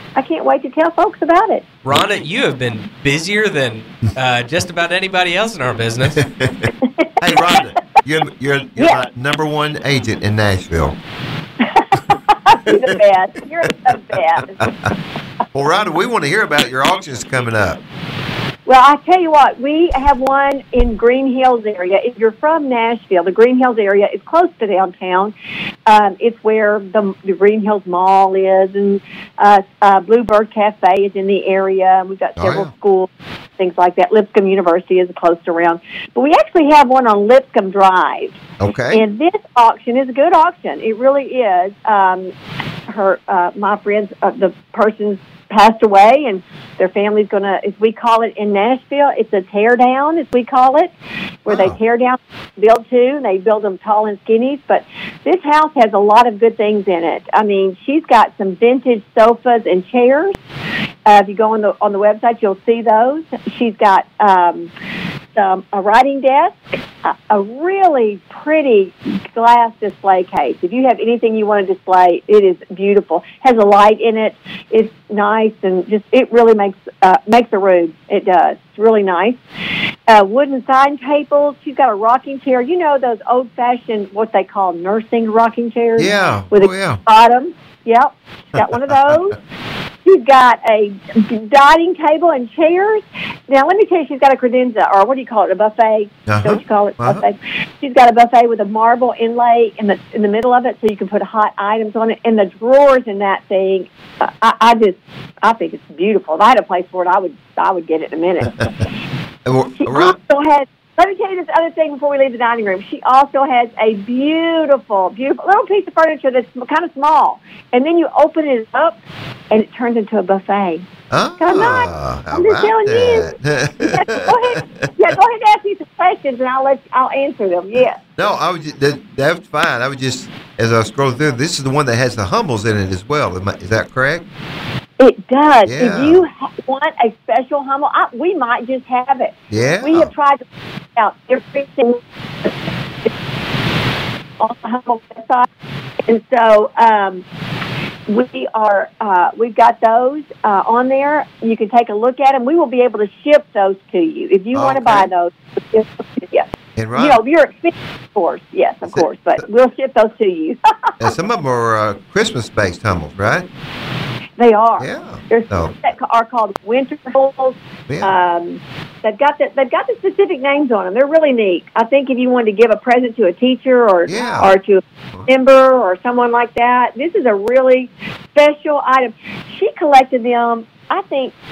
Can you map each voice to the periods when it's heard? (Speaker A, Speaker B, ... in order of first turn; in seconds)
Speaker A: 0.1-1.7, 6.8-7.6, 8.8-9.0, 11.6-14.7, 18.7-25.3, 25.9-38.4, 38.9-42.3, 42.9-50.9, 51.5-60.4, 61.1-64.7, 65.3-79.4, 80.1-89.4, 90.0-108.8, 109.8-120.9, 121.4-128.0, 135.0-140.4, 141.0-143.1, 144.4-145.5, 146.1-147.2, 148.1-161.0, 164.4-181.3
Speaker B: 1.9-6.2
Speaker C: 6.2-6.7, 7.2-11.0, 12.7-12.9, 14.1-14.9, 15.5-17.8, 32.4-32.7, 38.6-39.0, 51.5-51.8, 86.0-87.0, 96.3-97.2, 109.5-110.2, 121.1-124.9, 128.2-134.3, 135.7-136.2, 139.5-140.1, 154.5-155.1, 156.8-157.2, 158.8-159.4, 161.0-163.5, 164.8-165.7, 174.1-174.5